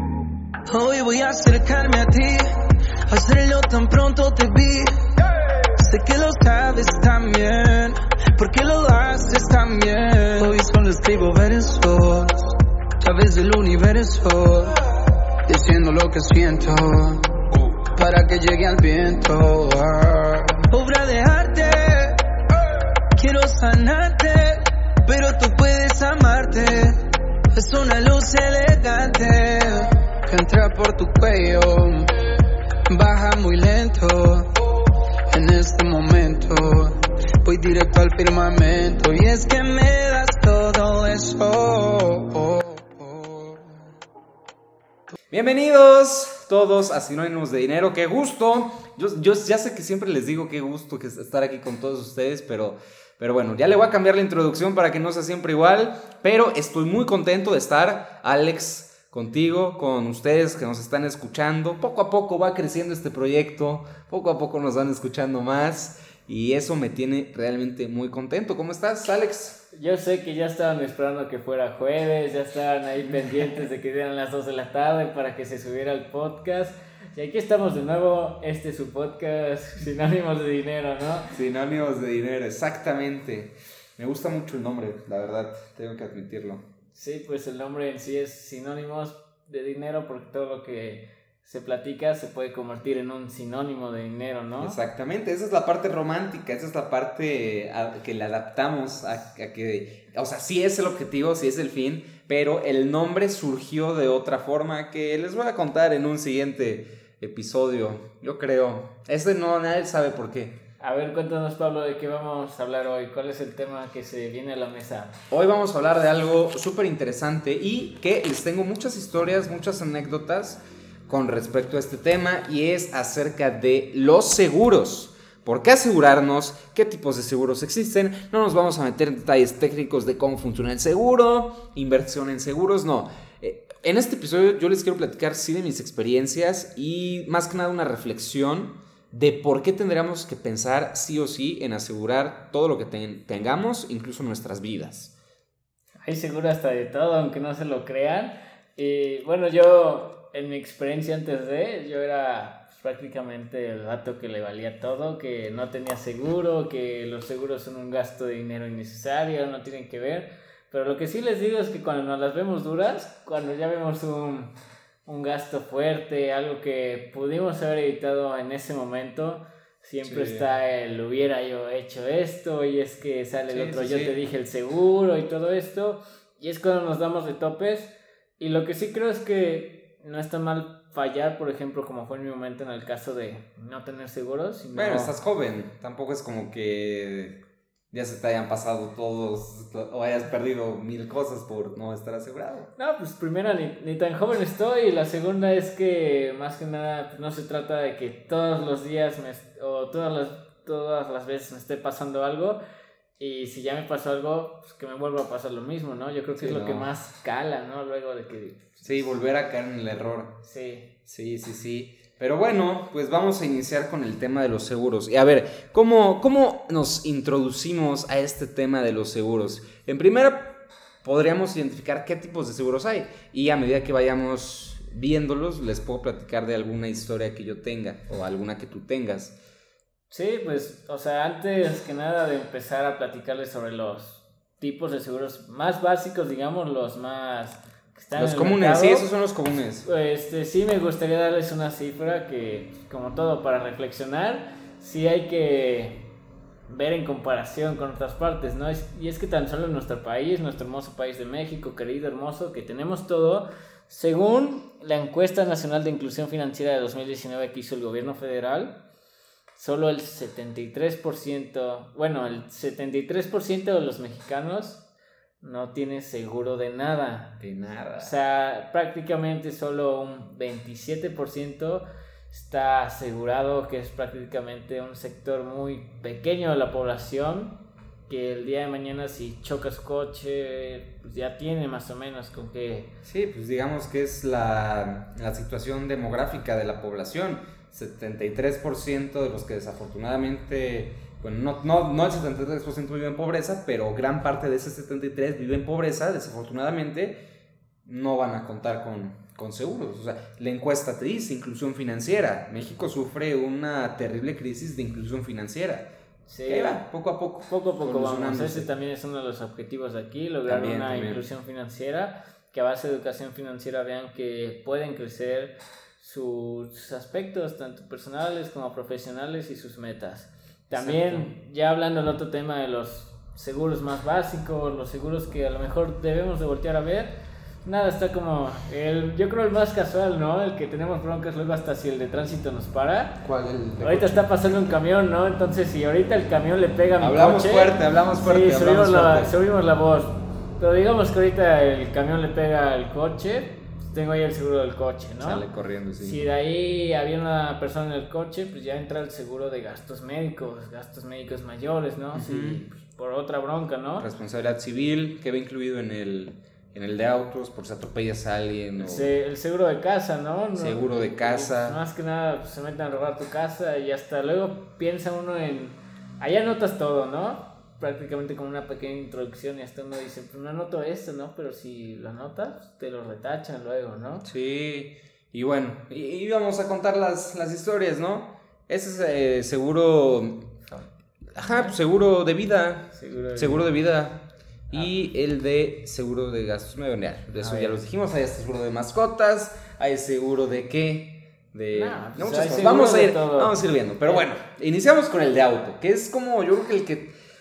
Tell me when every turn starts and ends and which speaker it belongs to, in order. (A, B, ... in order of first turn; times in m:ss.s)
0:00.7-0:05.0 A
0:05.8-0:14.8 A
0:15.5-0:22.3 A
0:23.1-0:32.1 A
0:32.9-0:34.5 A
0:35.3-0:43.6 A
0:45.3-1:09.6 B
1:09.7-1:21.3 C
1:21.3-1:26.6 B
1:27.0-1:34.8 C
1:34.6-1:50.6 B
1:50.8-1:55.2 C
1:55.3-2:25.1 B
2:26.0-2:44.5 C
2:45.1-3:05.2 C
2:50.0-2:50.5 B
2:53.5-2:54.2 B
3:04.7-3:07.4 B
3:07.9-3:12.7 B
3:12.8-3:22.6 C
3:23.2-3:29.2 C
3:26.4-3:26.9 B
3:28.8-3:30.4 B
3:30.4-3:30.9 C
3:31.1-3:49.4 B
3:50.1-3:59.1 C
3:58.2-3:59.8 B
3:59.8-4:06.1 C
4:06.7-4:18.8 C
4:19.6-4:24.8 C
4:25.4-4:27.4 C
4:27.4-4:28.2 B
4:28.0-4:42.9 C
4:43.0-4:57.2 B
4:57.8-5:05.9 B
5:06.3-5:06.9 C
5:06.5-5:08.7 B
5:07.5-5:33.2 C
5:10.5-5:11.2 B
5:20.7-5:21.3 B
5:33.2-5:34.3 B
5:33.8-5:45.4 C
5:37.0-5:39.3 B
5:45.2-5:46.2 B
5:46.0-5:54.1 C
5:52.2-5:52.6 B
5:54.0-5:59.1 B
5:58.8-6:14.3 C
6:00.6-6:01.8 B
6:14.2-6:20.5 B
6:21.3-6:37.1 B
6:21.4-6:21.8 C
6:22.9-6:23.7 C
6:27.4-6:27.8 C
6:31.7-6:34.3 C